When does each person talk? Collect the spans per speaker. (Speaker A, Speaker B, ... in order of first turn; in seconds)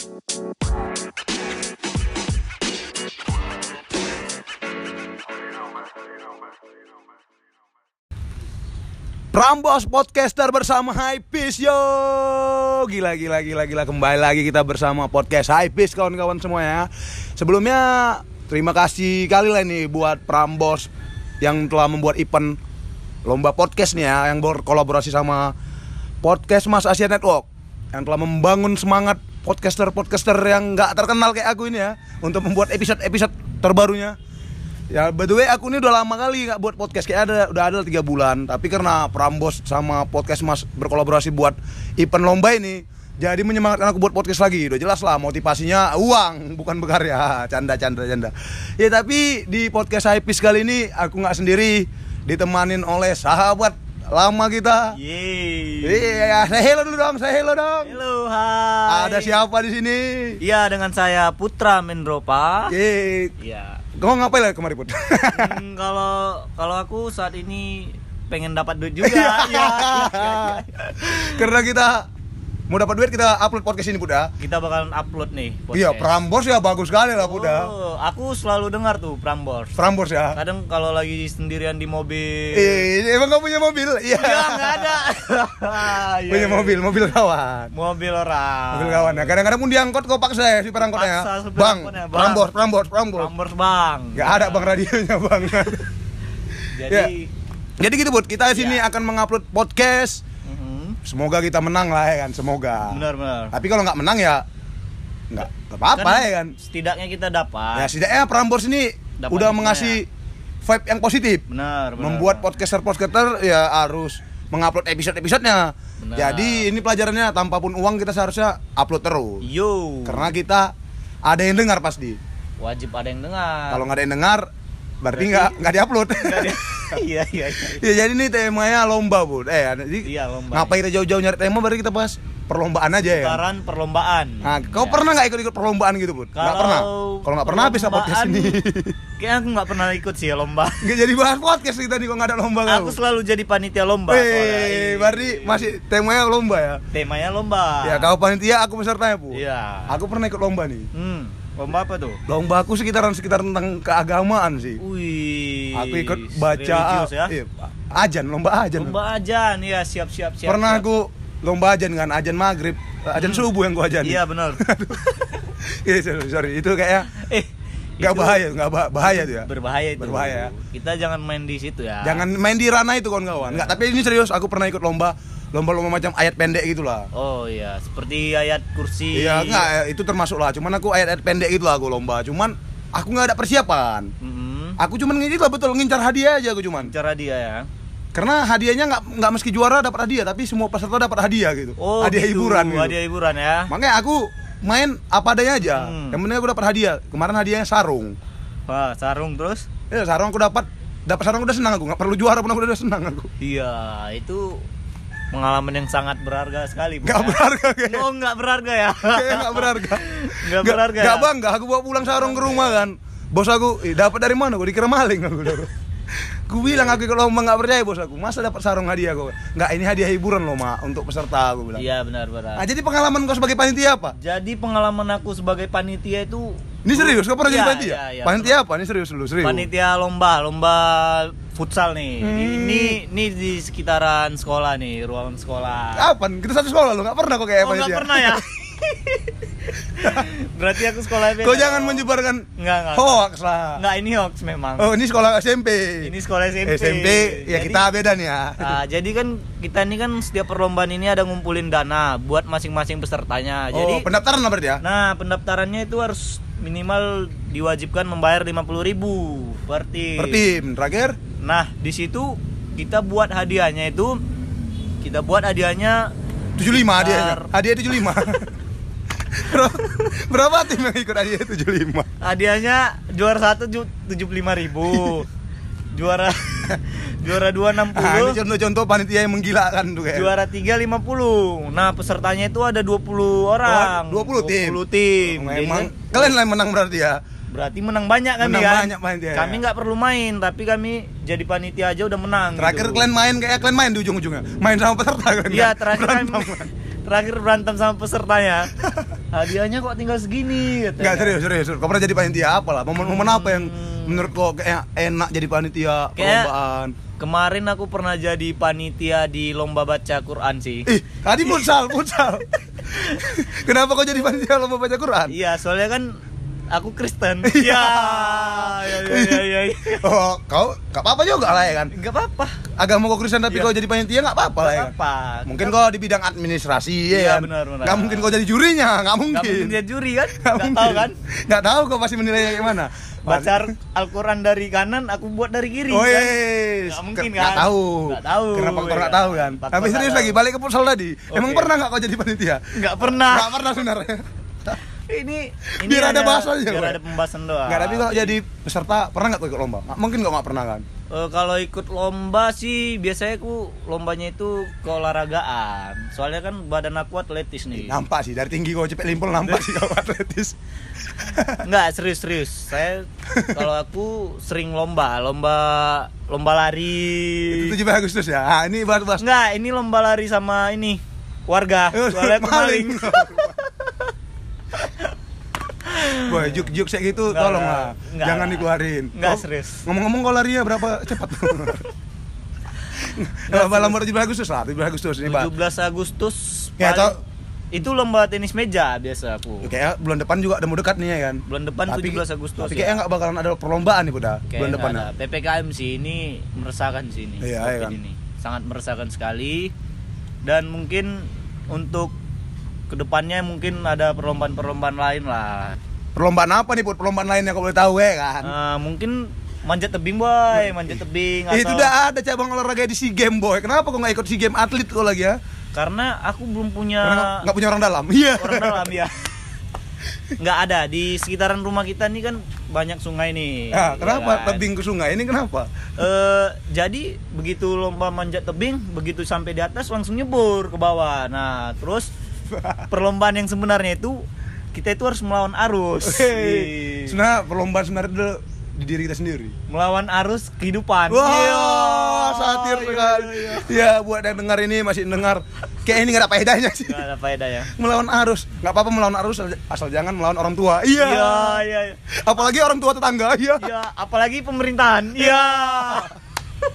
Speaker A: 9.3-20.9, 21.4-22.6, 23.2-25.5, 26.2-34.2, 34.9-55.0, 55.8-58.0, 58.9-60.4, 62.7-63.3, 64.0-65.5, 69.0-70.6, 71.2-72.0, 72.7-74.3, 75.7-77.7, 79.8-80.4, 82.5-85.0, 86.3-87.7, 88.7-93.3, 94.1-95.9, 96.8-97.1, 97.8-100.2, 101.0-103.0, 103.5-104.4, 105.3-106.5, 107.8-110.1, 110.6-111.4, 112.0-119.4, 120.1-120.7, 121.3-122.2, 123.7-124.5, 125.0-127.0, 127.6-133.4, 134.4-138.9, 140.8-142.9, 144.1-146.8, 147.8-150.9, 152.3-154.8, 155.7-158.9, 160.5-165.0, 165.6-167.1, 168.0-170.5, 172.0-177.1, 179.1-184.1, 184.8-186.9, 188.1-192.9, 193.7-198.2, 199.9-203.3, 207.0-208.1, 209.0-215.7, 216.5-221.8, 222.6-224.1, 226.8-229.7, 232.2-233.0, 235.9-238.4, 240.0-240.3, 241.3-243.8, 244.8-246.1, 246.6-248.7, 253.7-254.8, 260.2-261.1, 266.6-268.5, 269.2-272.1, 277.9-280.3, 283.6-287.2, 288.4-289.6, 292.6-296.7, 301.0-306.9, 310.9-315.4, 317.4-321.9, 322.8-324.9, 325.4-329.8, 330.4-333.7, 335.9-344.8, 345.8-347.0, 347.7-350.8, 357.8-360.6, 361.1-361.6, 363.3-363.6, 367.5-369.2, 371.9-373.6, 376.1-381.9, 383.0-385.5, 386.8-387.1, 389.6-395.1, 397.4-398.0, 406.1-408.5, 410.5-415.4, 417.0-418.9, 423.7-425.7, 432.5-432.8, 436.1-439.6, 441.1-447.0, 447.7-451.6, 452.1-453.7, 455.3-456.1
Speaker B: 54.9-56.5, 57.8-59.4, 60.4-62.7, 63.4-63.8, 65.3-71.5, 74.4-76.2, 77.2-79.8, 80.3-82.9, 84.1-86.8, 87.7-89.3, 90.8-92.5, 93.2-94.8, 96.7-97.3, 98.5-98.8, 100.5-101.0, 102.9-103.5, 105.9-107.9, 109.2-110.0, 111.5-112.5, 116.0-116.7, 119.4-120.3, 122.6-123.8, 125.1-127.8, 130.0-130.8, 133.1-135.0, 136.3-138.6, 139.2-140.8, 142.7-145.7, 146.9-148.1, 149.3-149.9, 150.9-152.2, 154.8-157.3, 158.8-160.8, 163.2-163.5, 164.0-165.4, 167.1-168.4, 169.0-172.2, 173.3-173.8, 177.1-179.7, 184.2-184.8, 186.8-187.7, 191.8-193.7, 195.6-196.2, 198.7-199.7, 203.4-204.6, 205.3-211.3, 212.0-212.8, 216.7-217.0, 221.8-222.7, 224.1-228.6, 229.4-236.1, 237.6-243.2, 243.8-244.9, 246.0-247.9, 248.6-254.1, 254.8-260.5, 261.4-264.2, 265.0-266.1, 266.9-267.5, 272.2-275.3, 275.9-278.4, 280.1-286.4, 287.5-293.1, 295.5-298.7, 299.3-301.4, 303.0-304.3, 306.1-306.5, 307.2-310.9, 311.4-311.8, 312.8-313.5, 315.3-316.2, 316.7-320.1, 321.9-322.7, 323.5-323.7, 324.6-325.8, 327.1-328.3, 329.3-331.2, 333.2-340.4, 341.3-341.7, 342.7-343.8, 345.1-348.3, 351.1-358.0, 359.4-359.9, 361.6-367.8, 369.2-374.1, 374.8-375.1, 375.8-376.7, 377.3-379.8, 381.6-381.9, 383.5-384.0, 385.2-387.2, 387.7-389.7, 391.5-393.0, 394.5-399.7, 400.4-402.1, 402.9-405.8, 408.4-411.9, 415.7-417.5, 418.4-419.3, 420.4-424.7, 426.0-432.1, 432.9-437.2, 439.7-443.8, 446.8-447.7, 451.0-452.0, 453.6-456.1